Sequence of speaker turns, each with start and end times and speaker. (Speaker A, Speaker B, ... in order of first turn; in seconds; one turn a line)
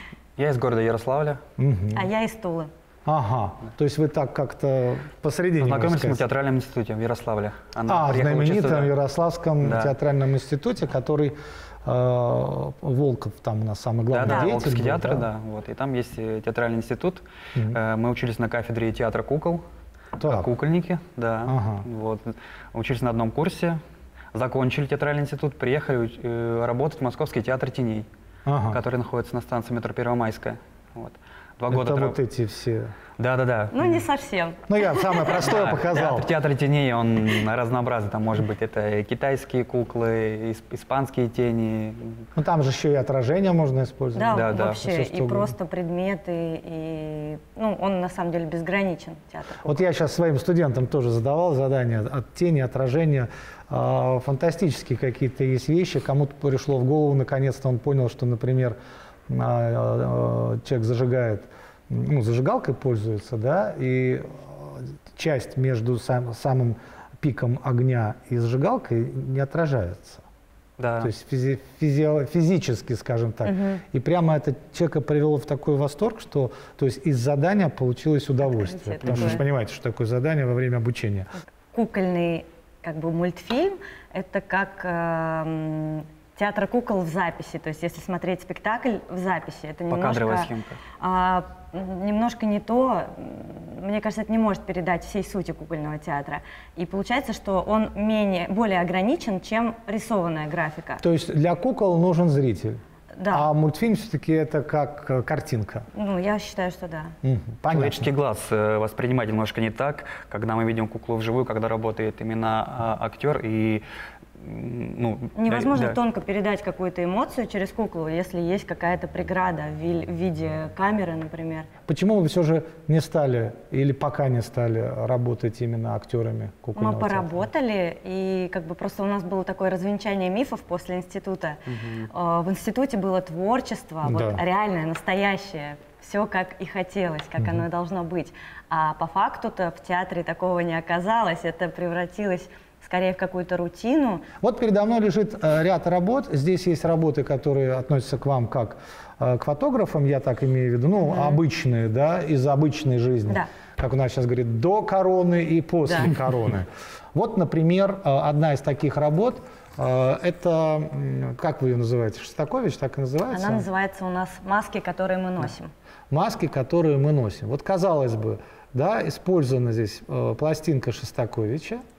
Speaker A: 0.4-1.4
Speaker B: 1.6-2.1
Speaker C: 1.9-2.7
Speaker B: 3.0-6.2
Speaker A: 5.6-8.9
Speaker B: 7.9-15.3
Speaker A: 9.6-9.9
Speaker A: 14.1-19.6
Speaker C: 14.3-14.6
Speaker B: 20.2-20.5
Speaker A: 20.2-23.8
Speaker B: 21.4-21.9
Speaker A: 24.3-28.1
Speaker B: 28.4-28.8
Speaker A: 28.7-32.1
Speaker B: 31.7-32.9
Speaker A: 33.2-34.0
Speaker C: 33.7-35.3
Speaker B: 34.7-36.3
Speaker A: 35.3-42.2
Speaker B: 42.4-45.5
Speaker C: 44.1-49.8
Speaker A: 44.3-44.8
Speaker B: 49.6-58.8
Speaker B: 59.3-70.2
Speaker A: 70.8-71.1
Speaker B: 71.0-81.3
Speaker C: 73.4-73.8
Speaker C: 78.4-79.4
Speaker A: 79.1-79.4
Speaker C: 81.7-101.0
Speaker A: 89.9-90.8
Speaker B: 101.0-105.9
Speaker C: 103.2-103.5
Speaker C: 105.9-107.1
Speaker B: 107.2-108.1
Speaker A: 107.7-113.8
Speaker A: 114.4-116.0
Speaker C: 115.3-121.7
Speaker B: 121.9-127.5
Speaker C: 126.8-144.2
Speaker A: 131.8-132.1
Speaker B: 134.0-134.4
Speaker B: 137.4-137.6
Speaker B: 144.4-163.7
Speaker C: 151.0-151.4
Speaker C: 163.3-165.7
Speaker B: 166.1-171.8